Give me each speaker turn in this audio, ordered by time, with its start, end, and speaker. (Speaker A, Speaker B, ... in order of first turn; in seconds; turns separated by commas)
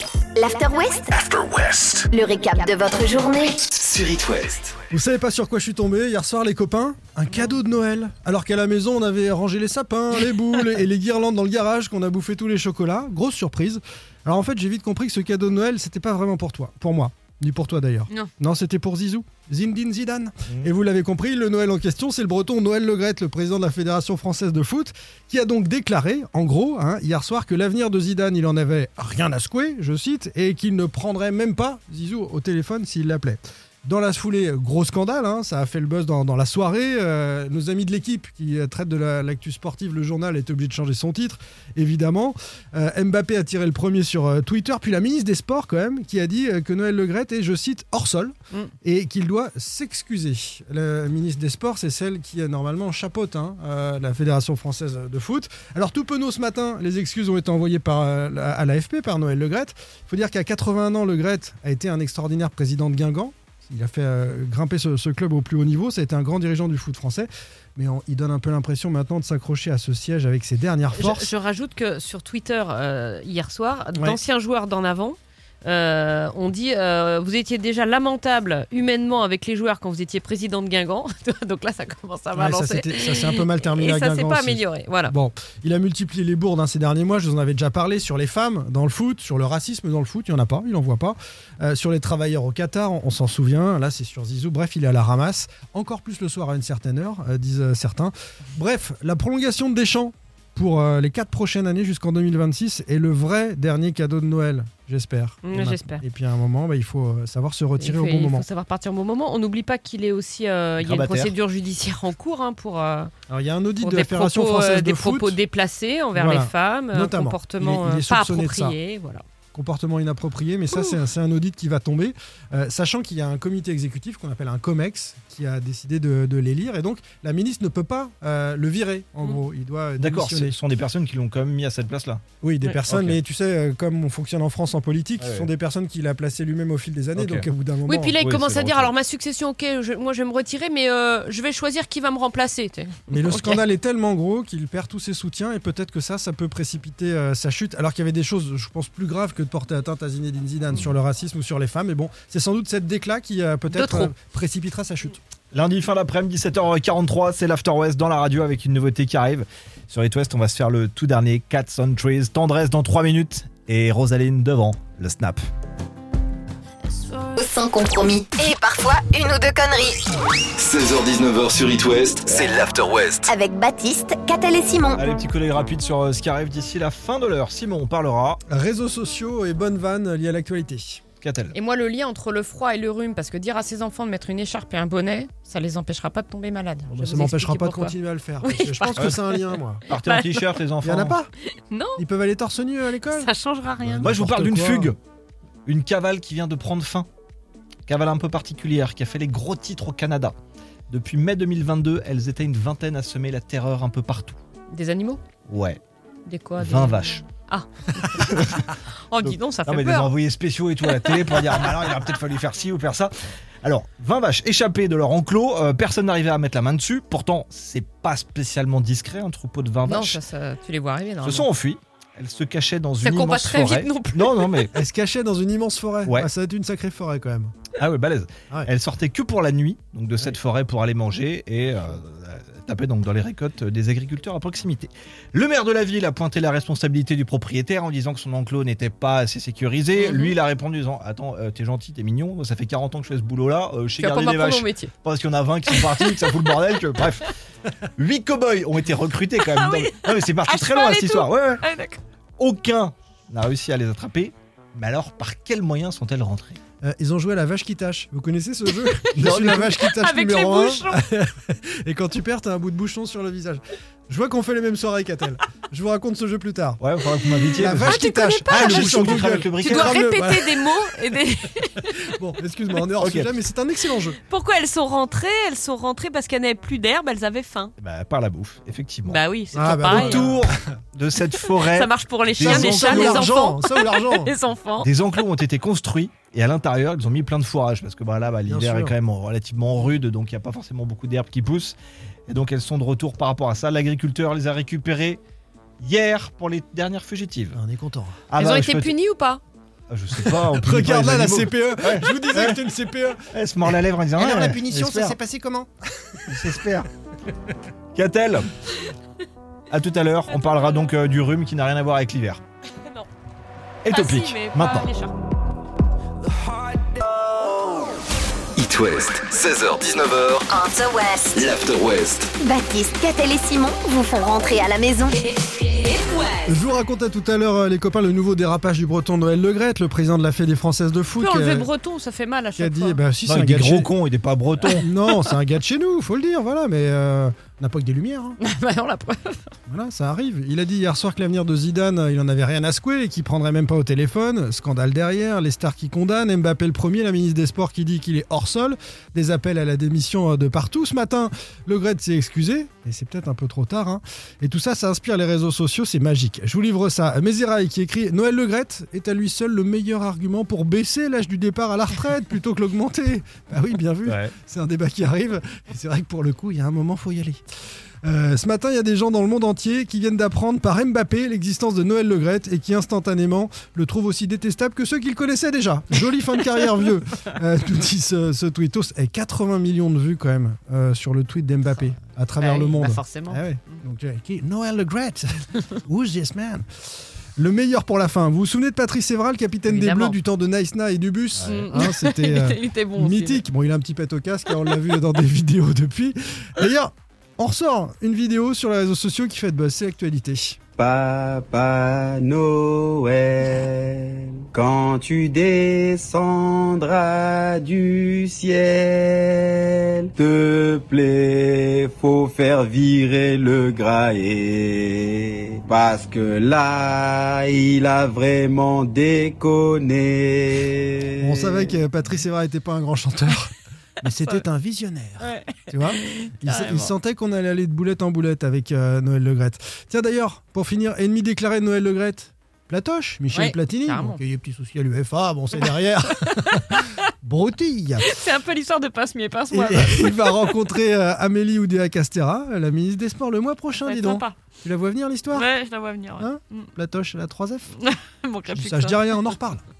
Speaker A: 0.3-1.1, Speaker B: 1.1-2.1, Speaker A: 2.1-3.6, Speaker B: 3.6-4.7, Speaker C: 4.9-71.2, Speaker D: 70.9-85.1, Speaker C: 82.3-108.5, Speaker D: 105.4-106.0, Speaker D: 107.8-113.1, Speaker E: 110.8-111.3, Speaker C: 113.3-115.4, Speaker D: 113.8-119.2, Speaker C: 116.1-118.8, Speaker C: 119.5-130.6, Speaker D: 120.7-121.0, Speaker E: 130.0-132.2, Speaker C: 132.4-138.2, Speaker E: 132.9-133.2, Speaker E: 135.2-135.5, Speaker E: 137.1-137.5, Speaker D: 137.9-143.6, Speaker E: 138.2-138.9, Speaker C: 143.1-155.2, Speaker D: 153.7-154.1, Speaker E: 155.5-165.4, Speaker D: 167.1-167.4, Speaker A: 167.4-170.0, Speaker B: 170.6-173.3, Speaker A: 173.3-175.0, Speaker E: 174.9-178.4, Speaker C: 178.5-181.0, Speaker E: 181.2-181.5, Speaker D: 181.5-190.6, Speaker C: 186.9-189.8, Speaker E: 189.9-191.2, Speaker C: 190.8-191.3, Speaker D: 191.7-192.0, Speaker C: 192.0-194.9, Speaker D: 193.1-194.1, Speaker E: 194.0-195.0, Speaker E: 195.7-197.1, Speaker E: 197.8-200.3, Speaker E: 200.9-204.4, Speaker D: 204.7-205.2, Speaker E: 205.5-205.8, Speaker D: 206.2-208.3, Speaker E: 206.6-207.2, Speaker E: 208.2-208.7, Speaker D: 209.1-210.1, Speaker E: 209.2-220.2, Speaker D: 219.8-221.5, Speaker E: 221.2-224.7, Speaker D: 223.0-224.7, Speaker C: 224.7-227.6, Speaker E: 227.7-247.2, Speaker D: 239.9-240.3, Speaker D: 244.0-244.9, Speaker D: 245.7-246.1, Speaker E: 248.0-251.6, Speaker D: 249.4-252.0, Speaker E: 252.4-256.6, Speaker C: 256.8-266.8, Speaker E: 259.2-259.9, Speaker D: 259.8-261.0, Speaker E: 266.8-270.0, Speaker C: 267.6-270.8, Speaker D: 267.6-271.9, Speaker C: 272.0-274.2, Speaker E: 273.0-273.4, Speaker D: 274.2-277.7, Speaker E: 277.8-283.4, Speaker D: 279.0-280.4, Speaker C: 279.5-280.6, Speaker D: 281.4-284.9, Speaker C: 282.4-284.3, Speaker E: 284.8-291.8, Speaker C: 288.4-288.9, Speaker E: 292.3-295.2, Speaker E: 295.8-297.6, Speaker C: 297.5-298.2, Speaker E: 298.3-298.9, Speaker D: 298.4-299.4, Speaker E: 299.9-302.6, Speaker C: 300.1-306.6, Speaker E: 303.3-305.2, Speaker E: 306.3-306.9, Speaker E: 307.9-308.4, Speaker E: 309.7-312.4, Speaker D: 312.8-313.1, Speaker E: 313.8-314.9, Speaker D: 313.9-315.1, Speaker B: 318.6-320.7, Speaker A: 320.5-321.5, Speaker B: 321.3-322.3, Speaker A: 322.4-326.4, Speaker C: 326.4-331.7, Speaker D: 331.2-333.0, Speaker C: 332.6-333.9, Speaker E: 333.2-334.9, Speaker C: 334.8-338.4, Speaker D: 338.4-339.5, Speaker C: 339.7-367.4, Speaker E: 364.0-364.3, Speaker C: 368.0-386.6, Speaker D: 382.4-383.8, Speaker C: 387.4-400.6, Speaker D: 389.6-390.2, Speaker E: 391.4-391.7, Speaker D: 391.4-393.4, Speaker F: 400.8-421.7, Speaker C: 421.2-438.1, Speaker D: 425.2-426.9, Speaker D: 433.3-434.2, Speaker D: 436.4-437.0, Speaker D: 438.0-440.5, Speaker C: 439.5-445.5, Speaker D: 443.8-444.4, Speaker D: 445.3-446.7, Speaker C: 446.2-447.7, Speaker D: 447.8-449.0, Speaker C: 448.5-449.6